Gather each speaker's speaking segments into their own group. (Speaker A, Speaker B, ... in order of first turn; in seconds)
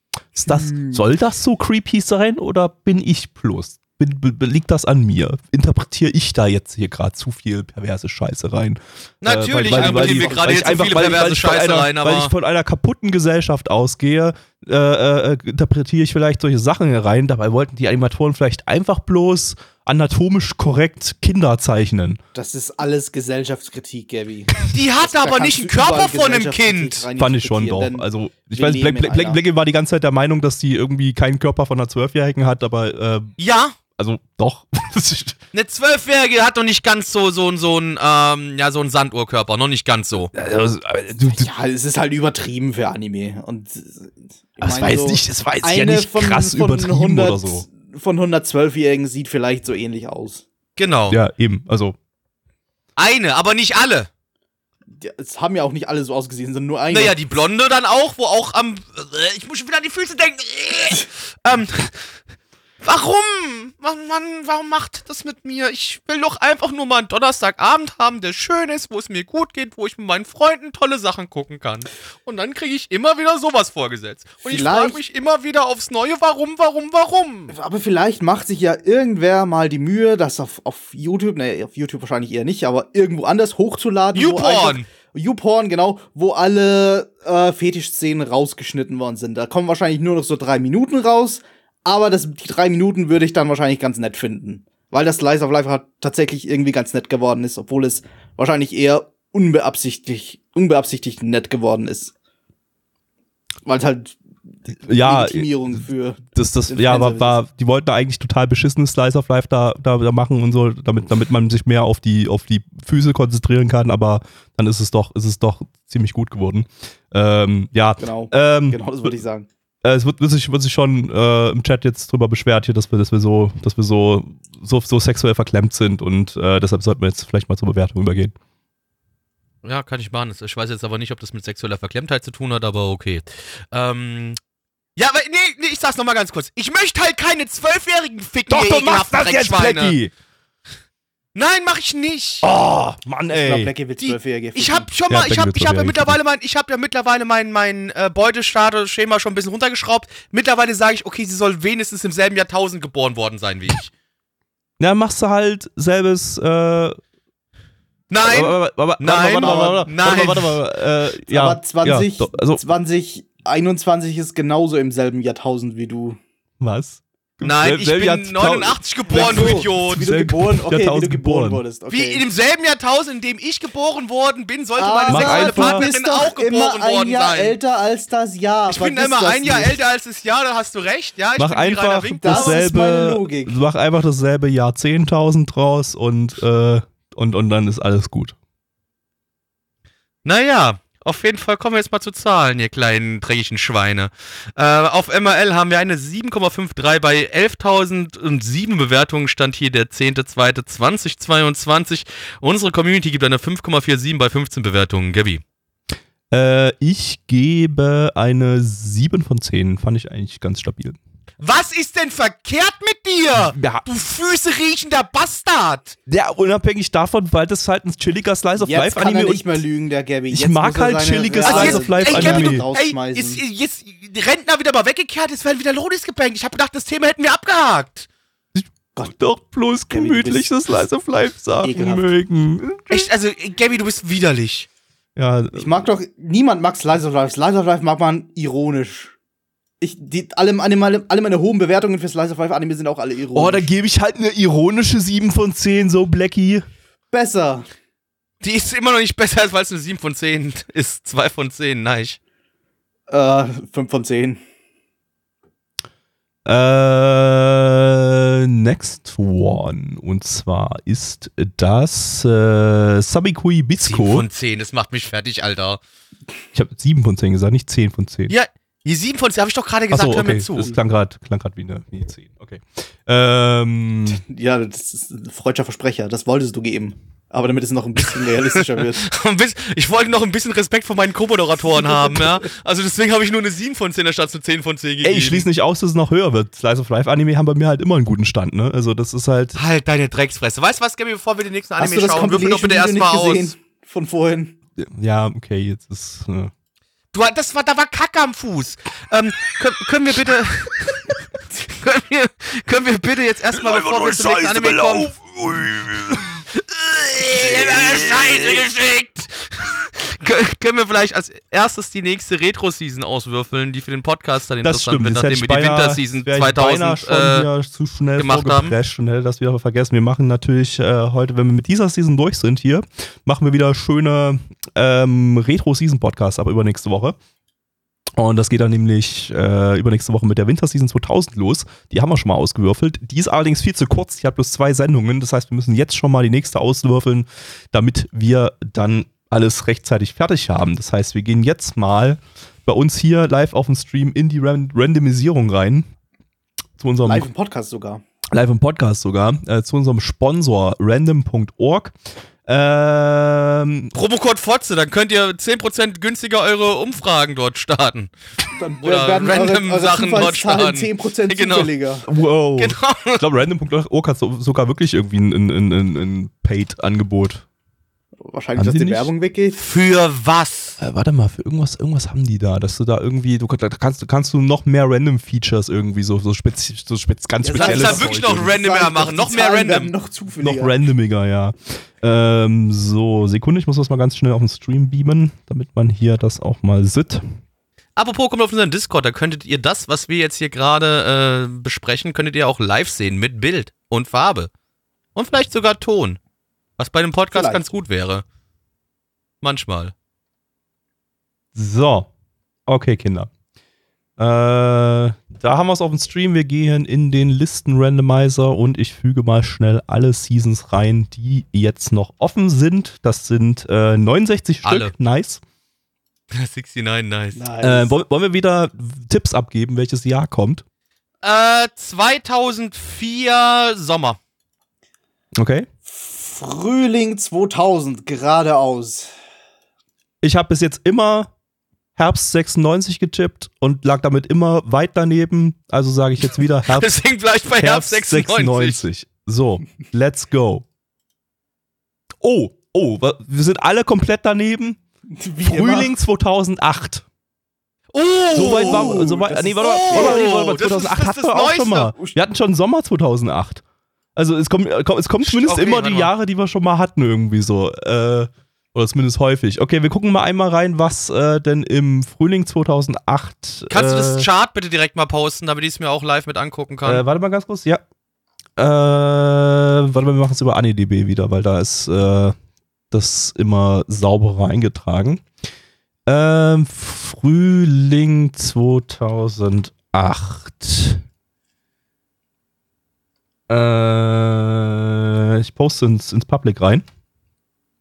Speaker A: 0.3-22.2, 27.2-33.3, 34.0-35.4, 40.3-41.5, 44.6-47.6, 51.1-52.0, 104.8-105.6, 106.3-119.1, 119.8-128.3, 138.5-140.1, 142.4-143.7, 145.1-146.2, 154.8-157.0, 158.2-162.6, 166.6-171.6, 175.1-175.8, 181.4-188.3, 206.3-211.0, 213.4-213.8, 216.1-219.6, 220.3-222.6, 228.5-233.1, 235.2-235.9, 243.3-246.7, 256.4-264.2, 266.5-268.3, 269.9-274.2, 285.0-289.6, 294.8-296.5, 303.5-306.4, 307.4-308.6, 314.6-327.1, 328.2-345.9, 346.8-347.3, 348.3-351.9, 352.4-353.9, 362.1-367.4, 368.6-369.1, 370.8-378.5, 380.4-387.2, 401.5-402.1, 402.7-403.3, 404.2-415.4, 417.6-420.6, 425.4-425.7, 430.2-431.3, 431.9-436.9, 437.5-440.6, 442.2-444.8, 445.4-447.0, 448.3-453.6, 454.1-464.3, 466.8-467.8, 468.6-472.3, 472.9-475.2, 476.1-481.0, 483.5-486.8
Speaker B: 0.5-1.0, 9.7-11.0, 22.3-29.4, 41.2-50.4, 55.0-57.1, 74.4-75.0, 77.5-102.1, 103.7-107.4, 118.0-119.5, 143.3-144.9, 159.4-159.9, 161.3-166.2, 169.1-172.2, 174.8-179.8, 182.2-183.6, 218.6-223.4, 229.9-230.5, 231.6-232.1, 235.5-239.1, 239.8-243.7, 247.1-247.7, 253.1-254.4, 274.3-279.0, 281.6-282.4, 291.8-294.6, 347.0-348.0, 358.6-362.1, 368.2-369.6, 377.4-380.8, 397.3-397.7, 417.3-418.0, 425.9-429.1, 445.1-445.9, 448.6-450.2
Speaker C: 9.2-12.3, 24.7-27.1, 33.4-33.8, 35.5-40.3, 50.8-51.2, 53.0-54.1, 56.9-62.0, 62.8-77.5, 84.1-84.8, 129.6-134.4, 134.9-139.9, 141.3-142.4, 144.0-153.9, 158.1-160.6, 167.4-170.0, 171.9-177.6, 178.7-182.5, 190.2-205.4, 211.4-216.0, 221.4-228.1, 232.9-234.7, 248.4-252.2, 263.9-265.8, 268.3-270.7, 278.4-285.4, 289.6-293.5, 297.1-305.1, 306.6-317.5, 318.2-318.7, 353.9-358.1, 358.8-361.7, 362.6-363.2, 369.6-370.8, 377.6-379.9, 387.9-394.5, 395.1-396.2, 396.8-398.2, 399.4-399.9, 414.6-414.9, 416.3-417.4, 421.2-424.2, 436.7-438.8, 447.9-449.0, 449.6-451.9, 455.2-456.1, 463.7-467.0